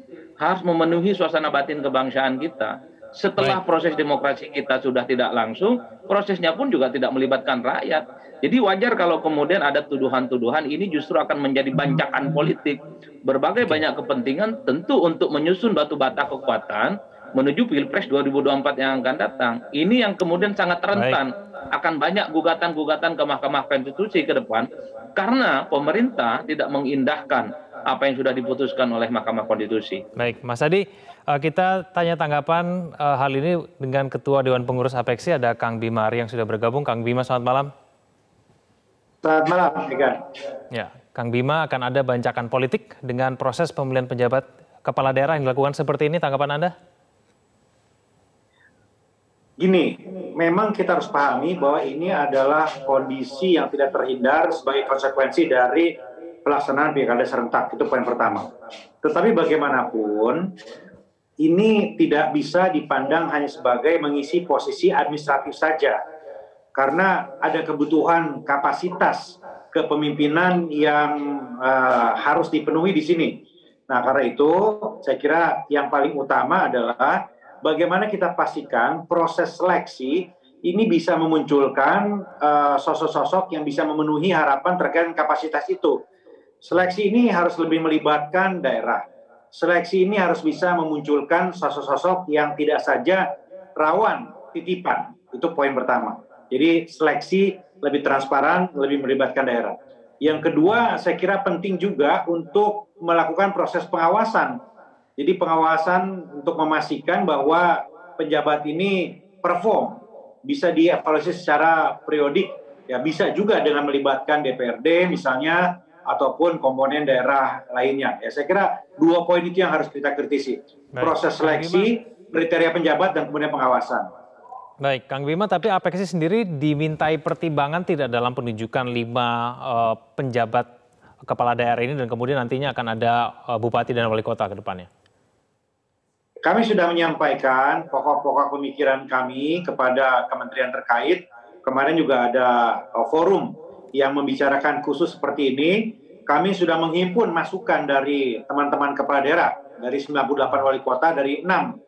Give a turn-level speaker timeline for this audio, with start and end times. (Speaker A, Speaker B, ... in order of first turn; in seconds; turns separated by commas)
Speaker A: 0.4-30.0, Speaker B: 20.9-21.2, Speaker B: 30.2-37.7, Speaker C: 39.2-40.2, Speaker B: 40.7-46.7, Speaker C: 49.6-55.9, Speaker C: 56.4-58.5, Speaker C: 59.0-60.5, Speaker C: 61.4-66.0, Speaker C: 66.7-86.0, Speaker C: 86.6-89.0, Speaker C: 89.5-93.2, Speaker C: 93.8-104.6, Speaker C: 105.2-124.0, Speaker B: 121.0-121.9, Speaker B: 124.8-130.7, Speaker B: 131.2-134.9, Speaker C: 136.4-151.7